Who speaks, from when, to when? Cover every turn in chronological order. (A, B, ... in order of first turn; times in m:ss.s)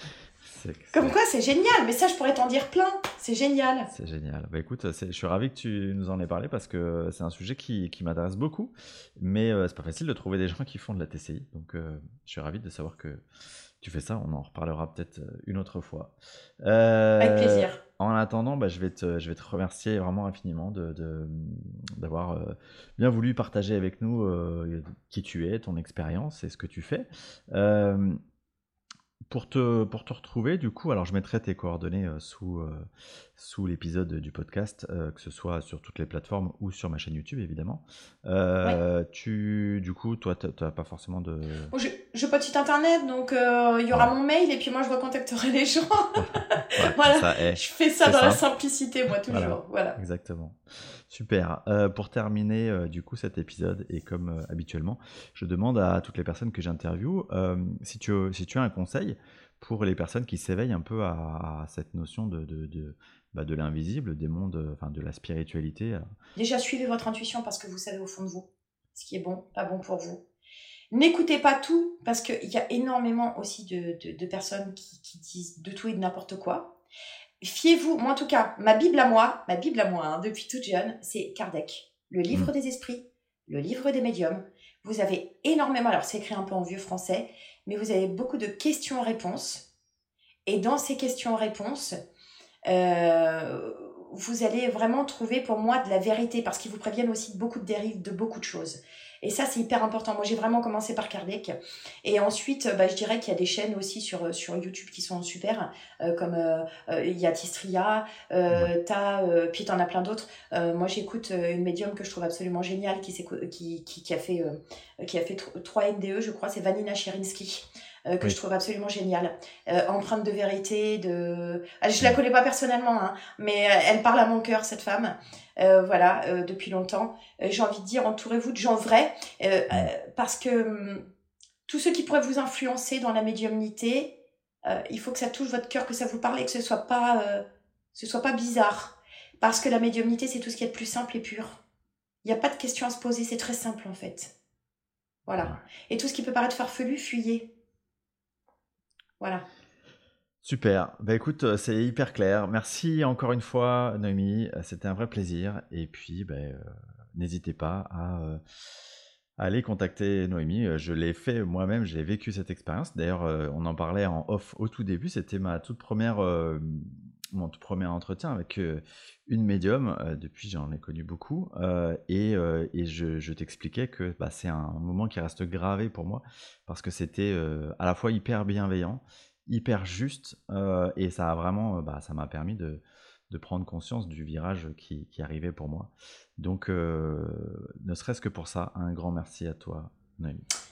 0:00.4-0:01.2 A
0:00.9-0:03.9 B
0:03.9-0:13.2 A
0:13.8-0:28.2 A
0:17.2-0:17.8 B
0:29.3-0:41.7 A
0:41.7-0:50.0 B
0:46.2-0:48.4 A
0:49.3-1:06.1 A
1:06.4-1:10.2 B
1:10.9-1:16.7 B
1:17.4-1:29.7 B
1:30.5-1:32.0 B
1:32.7-2:11.0 B
2:11.7-2:14.1 B
2:14.6-2:21.6 B
2:22.2-2:24.3 B
2:25.3-2:27.5 B
2:29.2-2:29.4 B
2:30.4-2:38.4 A
2:39.4-3:10.4 A